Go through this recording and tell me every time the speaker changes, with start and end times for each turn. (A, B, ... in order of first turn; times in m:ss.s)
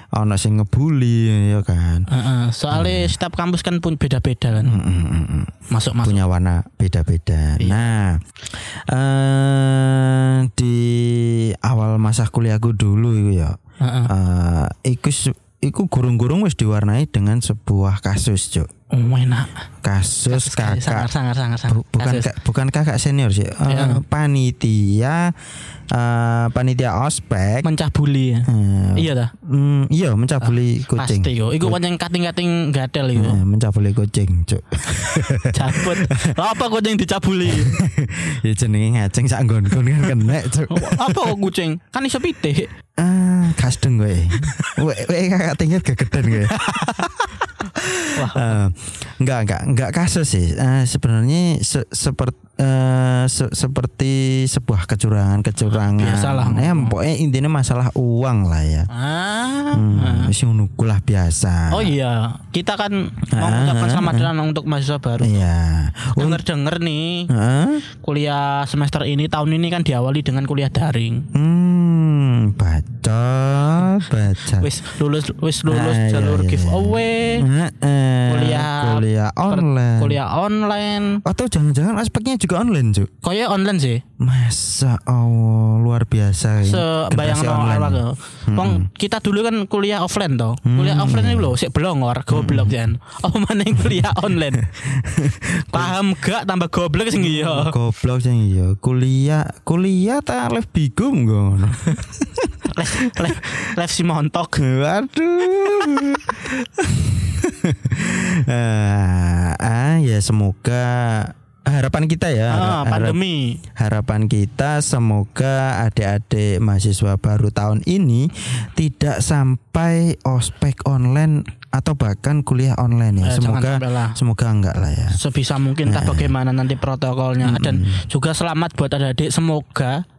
0:00.1-0:02.1 A
0:02.1-0:04.8 B
0:02.7-0:03.2 A
0:04.6-0:13.6 A
0:05.7-0:06.2 B
0:07.6-0:07.9 B
0:13.8-0:14.1 B
0:14.1-0:18.7 A
0:18.9-0:19.6 B
0:19.8-0:21.1 A
0:20.3-0:22.3 B
0:21.7-0:25.3 A
0:23.7-0:24.0 B
0:25.9-0:27.7 A
0:27.6-0:29.3 B
0:28.5-0:31.8 A
0:30.4-0:33.4 B
0:33.1-0:36.1 A
0:35.0-0:37.7 B
0:37.4-0:41.4 A
0:40.7-0:42.7 B
0:43.0-0:58.9 A
0:44.4-0:44.8 B
0:46.4-0:47.1 B
0:48.1-0:48.6 B
0:55.7-0:56.9 B
0:58.9-1:00.3 B
0:59.7-1:01.9 A
1:01.7-1:05.4 B
1:03.3-1:04.3 A
1:05.2-1:06.4 A
1:06.1-1:07.3 B
1:07.3-1:07.8 A
1:08.0-1:11.2 B
1:11.3-1:14.7 A
1:14.4-1:17.5 B
1:15.7-1:20.2 A
1:18.3-1:21.2 B
1:21.2-1:23.1 A
1:23.2-1:24.0 B
1:24.2-1:28.9 A
1:26.6-1:34.7 B
1:30.6-1:31.6 A
1:32.3-1:32.8 A
1:33.8-1:36.0 A
1:35.7-1:37.8 B
1:37.1-1:43.6 A
1:42.7-1:44.6 B
1:44.6-1:53.2 A
1:52.5-1:53.6 B
1:53.8-2:05.2 A
2:03.2-2:04.2 B
2:05.1-2:10.0 B
2:05.8-2:06.3 A
2:07.4-2:08.0 A